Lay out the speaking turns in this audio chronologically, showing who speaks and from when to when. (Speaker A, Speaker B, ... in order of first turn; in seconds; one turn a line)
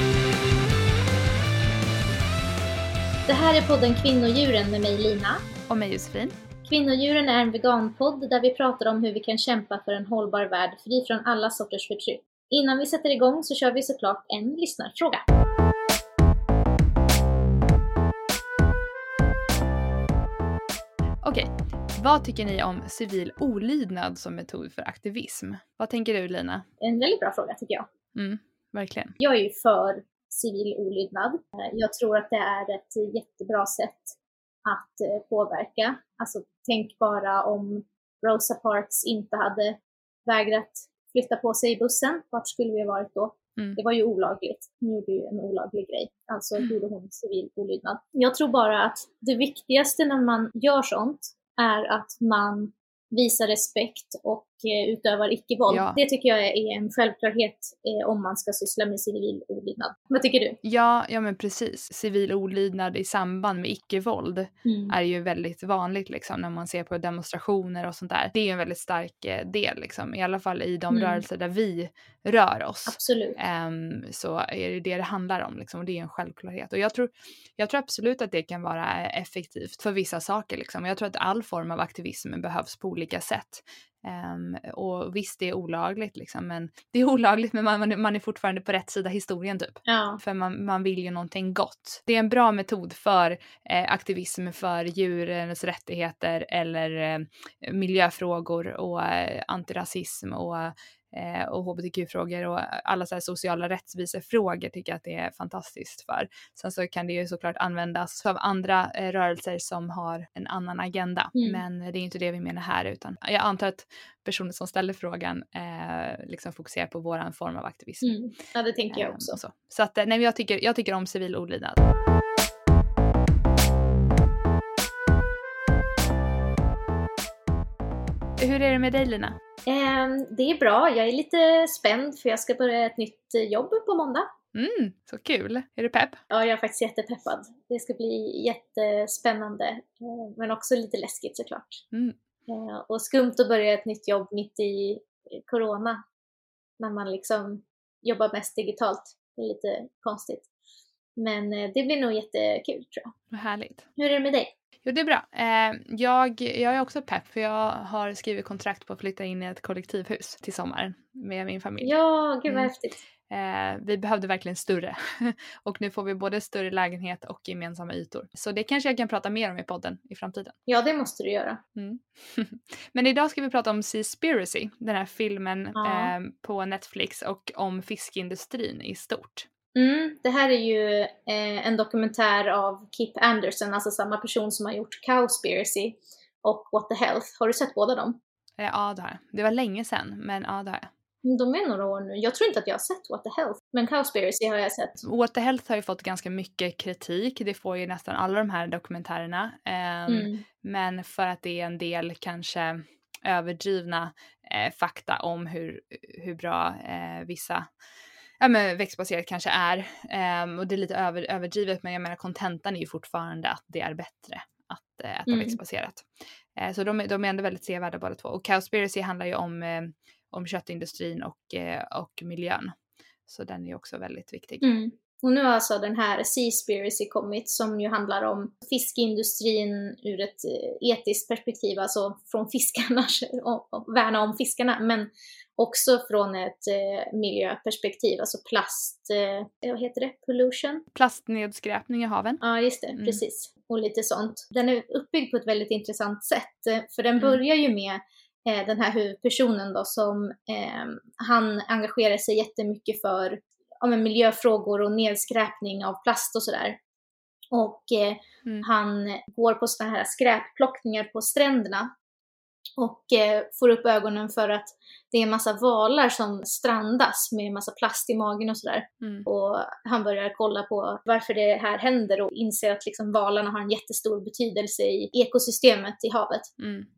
Speaker A: 3.3-5.4
Speaker B: 5.7-6.4
Speaker A: 6.7-15.2
Speaker B: 21.2-26.6
Speaker A: 26.8-27.9
Speaker B: 28.1-29.2
Speaker A: 29.2-60.6
Speaker B: 55.7-56.0
Speaker B: 60.6-118.1
Speaker A: 64.7-65.0
Speaker A: 70.9-71.2
Speaker A: 72.9-73.4
Speaker A: 89.9-90.2
Speaker A: 111.3-111.6
Speaker A: 118.0-119.4
Speaker B: 118.9-121.8
Speaker B: 128.4-129.4
Speaker A: 129.7-134.3
Speaker B: 134.5-136.2
Speaker A: 136.3-141.8
Speaker B: 141.9-142.2
Speaker A: 142.5-146.0
Speaker A: 146.8-150.5
Speaker A: 151.2-153.1
Speaker B: 153.3-153.8
Speaker A: 154.0-154.5
Speaker B: 154.8-161.9
Speaker A: 161.8-163.0
Speaker B: 163.3-170.5
Speaker A: 170.7-171.6
Speaker B: 171.8-179.5
Speaker A: 175.8-176.1
Speaker A: 179.8-188.2
Speaker B: 188.6-190.9
Speaker A: 191.2-195.0
Speaker B: 195.0-207.7
Speaker A: 200.1-200.4
Speaker B: 208.4-222.8
Speaker A: 215.3-215.6
Speaker B: 223.3-224.6
Speaker A: 224.6-240.8
Speaker B: 240.9-242.4
Speaker A: 242.4-256.8
Speaker B: 243.0-243.2
Speaker A: 257.5-261.9
Speaker A: 262.8-276.5
Speaker B: 269.0-269.3
Speaker B: 276.6-276.9